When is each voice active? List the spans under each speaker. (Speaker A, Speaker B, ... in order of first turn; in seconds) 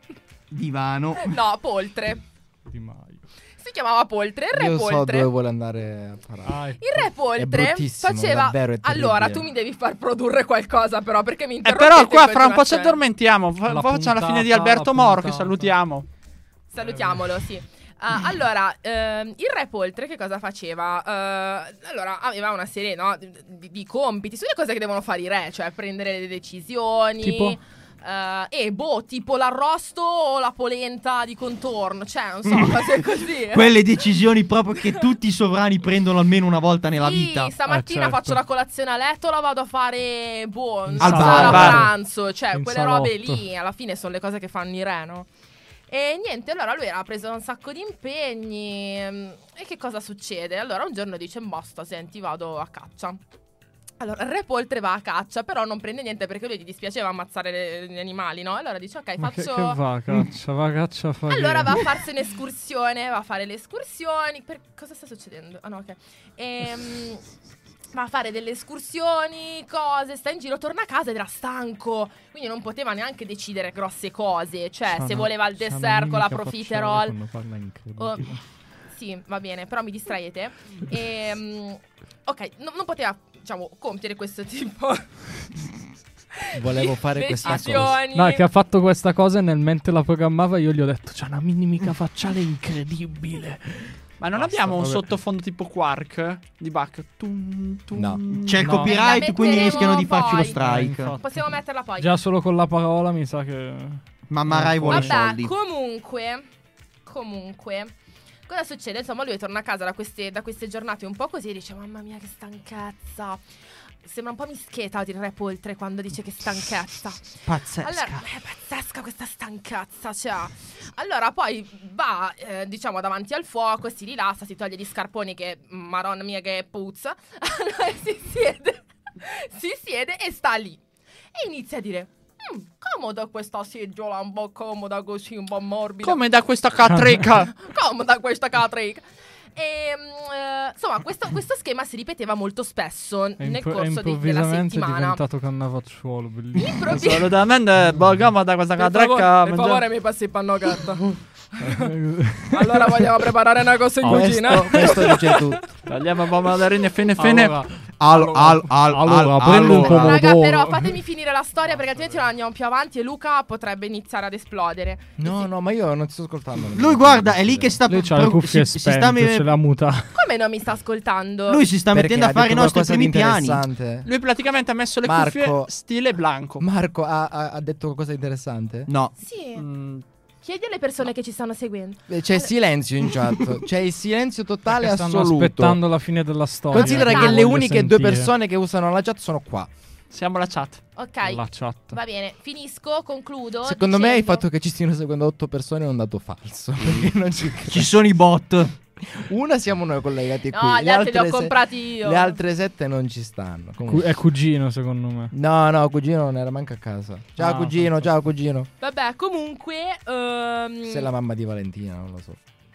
Speaker A: 0.5-1.4, 32.5-37.5, 41.0-41.8, 98.5-101.2, 104.3-105.5, 117.4-118.2, 158.0-160.3, 166.7-169.5, 171.5-173.6, 178.9-179.1, 197.7-198.8
Speaker B: 1.2-2.2, 3.6-5.3, 6.8-13.0, 16.7-33.9, 37.0-45.3, 45.9-53.2, 54.0-59.8, 61.3-67.2, 67.9-77.2, 78.0-78.3, 78.9-85.1, 86.4-88.5, 98.8-100.6, 101.2-102.1, 104.9-106.5, 107.1-107.9, 108.5-113.4, 114.0-130.8, 131.3-136.2, 137.5-145.2, 146.6-147.3, 148.8-151.9, 152.5-155.7, 159.7-165.5, 170.1-171.6, 179.2-179.7, 180.4-182.5, 186.7-187.5, 191.0-194.4, 200.5-202.4, 208.8-211.1
Speaker C: 2.7-3.2, 6.5-7.0, 13.7-15.7, 16.8-17.2, 27.2-27.6, 37.7-38.4, 41.0-42.0, 42.5-43.4, 59.2-62.0, 74.9-78.4, 88.1-95.1, 98.6-99.0, 100.4-105.2, 136.9-137.2, 143.4-147.1, 151.6-153.1, 154.0-155.1, 157.2-161.0, 161.7-162.2, 167.9-170.2, 184.7-188.3, 191.2-192.0, 203.8-205.3, 207.4-208.1
Speaker D: 4.5-6.8, 7.3-9.5, 41.2-41.6, 86.5-88.0, 97.9-98.2, 154.0-155.7, 165.2-167.8, 171.9-174.1, 175.0-175.7, 176.6-178.9, 182.1-185.8, 186.7-189.7, 193.7-197.9, 199.1-204.2, 205.3-208.7, 210.9-212.4
Speaker E: 11.6-16.1, 41.4-41.9, 94.2-98.9, 136.0-137.5, 146.9-149.8, 155.9-157.6, 174.1-176.7, 179.6-180.1, 190.1-190.8